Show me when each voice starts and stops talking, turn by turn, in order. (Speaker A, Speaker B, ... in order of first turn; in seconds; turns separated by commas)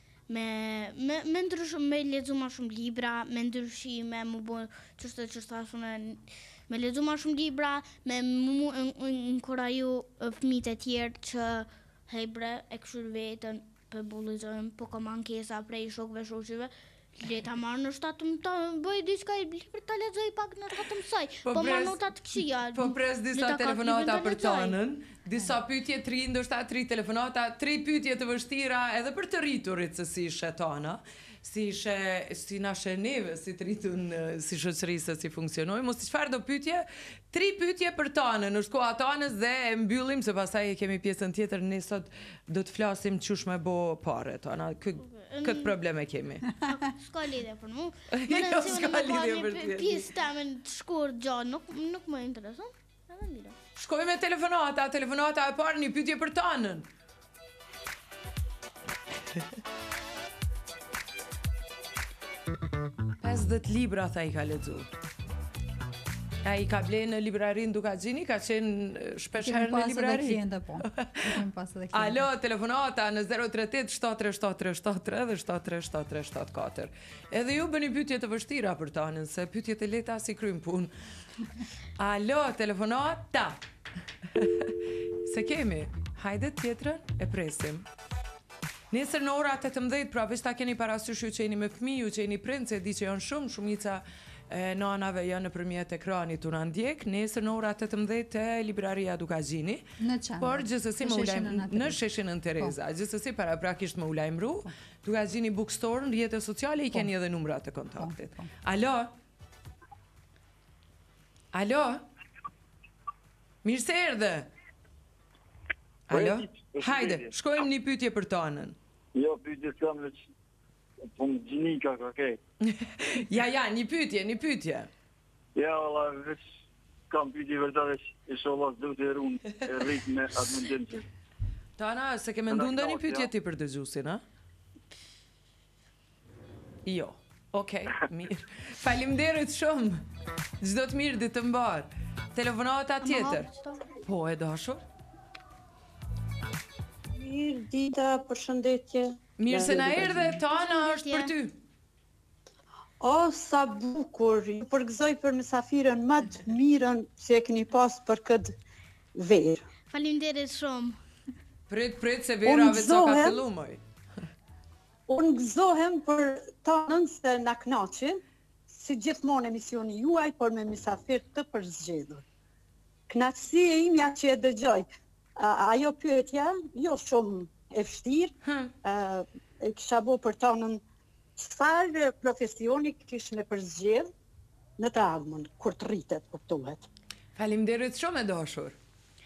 Speaker A: 0.3-24.8, Speaker B: 21.4-22.0, Speaker B: 22.7-46.5, Speaker A: 45.0-45.8, Speaker A: 46.6-53.5, Speaker B: 48.1-50.1, Speaker B: 53.8-56.9, Speaker B: 63.2-64.9, Speaker B: 66.4-71.3, Speaker C: 69.4-72.3, Speaker B: 71.9-80.9, Speaker B: 82.0-83.6, Speaker B: 84.3-87.8, Speaker B: 88.9-99.8, Speaker C: 100.0-102.0, Speaker B: 100.4-109.1, Speaker C: 108.0-108.5, Speaker B: 111.5-112.0, Speaker B: 113.6-114.5, Speaker B: 116.1-118.8, Speaker D: 116.1-117.3, Speaker D: 119.1-120.2, Speaker D: 121.1-122.4, Speaker B: 122.6-124.9, Speaker D: 125.5-126.4, Speaker D: 127.1-131.0, Speaker B: 131.8-134.2, Speaker D: 132.5-133.3, Speaker B: 136.8-140.0, Speaker B: 140.6-143.5, Speaker A: 143.0-143.7, Speaker B: 144.0-144.8, Speaker E: 147.2-150.4, Speaker B: 149.4-151.6, Speaker A: 150.5-151.3, Speaker E: 153.0-158.5, Speaker E: 159.2-159.6, Speaker A: 159.9-161.0, Speaker B: 161.7-163.8, Speaker E: 162.4-163.4, Speaker E: 165.1-172.2, Speaker E: 173.1-174.8, Speaker E: 175.4-180.8, Speaker B: 178.4-178.7, Speaker E: 181.4-184.1, Speaker E: 184.8-186.8, Speaker B: 187.3-188.7